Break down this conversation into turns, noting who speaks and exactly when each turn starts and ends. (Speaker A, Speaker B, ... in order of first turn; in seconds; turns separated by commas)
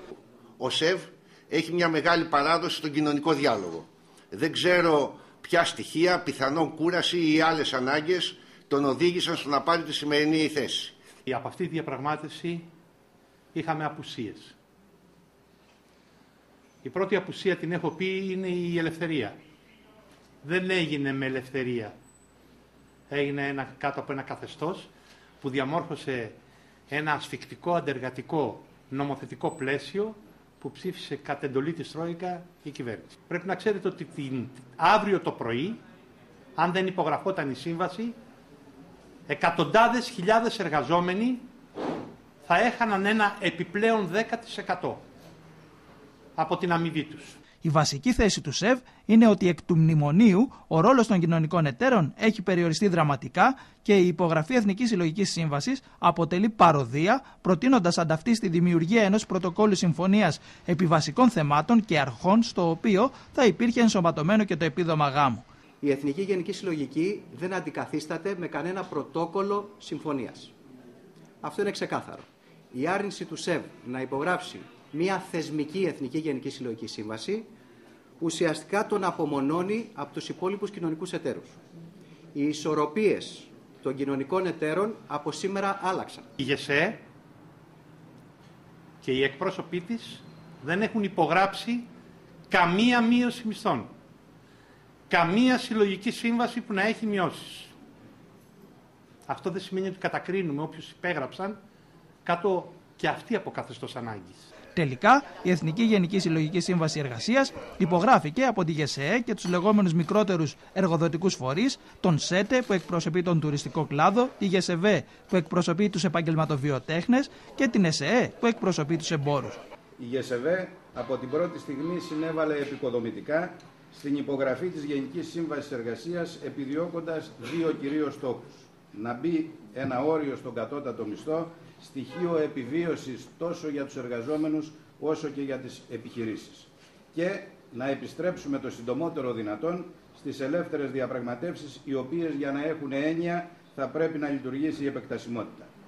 Speaker A: 0.6-10.9, Speaker B: 11.2-12.7, Speaker B: 13.5-14.5, Speaker B: 16.8-19.4, Speaker B: 20.4-21.9, Speaker B: 23.1-24.9, Speaker B: 25.4-26.4, Speaker B: 26.9-35.8, Speaker B: 36.6-38.1, Speaker B: 39.3-41.5, Speaker B: 42.4-45.0, Speaker B: 46.4-47.4, Speaker C: 47.6-65.4, Speaker D: 65.8-70.5, Speaker D: 71.4-77.5, Speaker D: 78.2-81.6, Speaker D: 82.3-86.3, Speaker B: 86.4-87.0, Speaker B: 89.0-91.9, Speaker B: 92.5-93.9, Speaker B: 95.1-97.7, Speaker B: 99.3-101.6, Speaker B: 102.2-104.5, Speaker C: 104.7-119.6, Speaker E: 120.0-145.7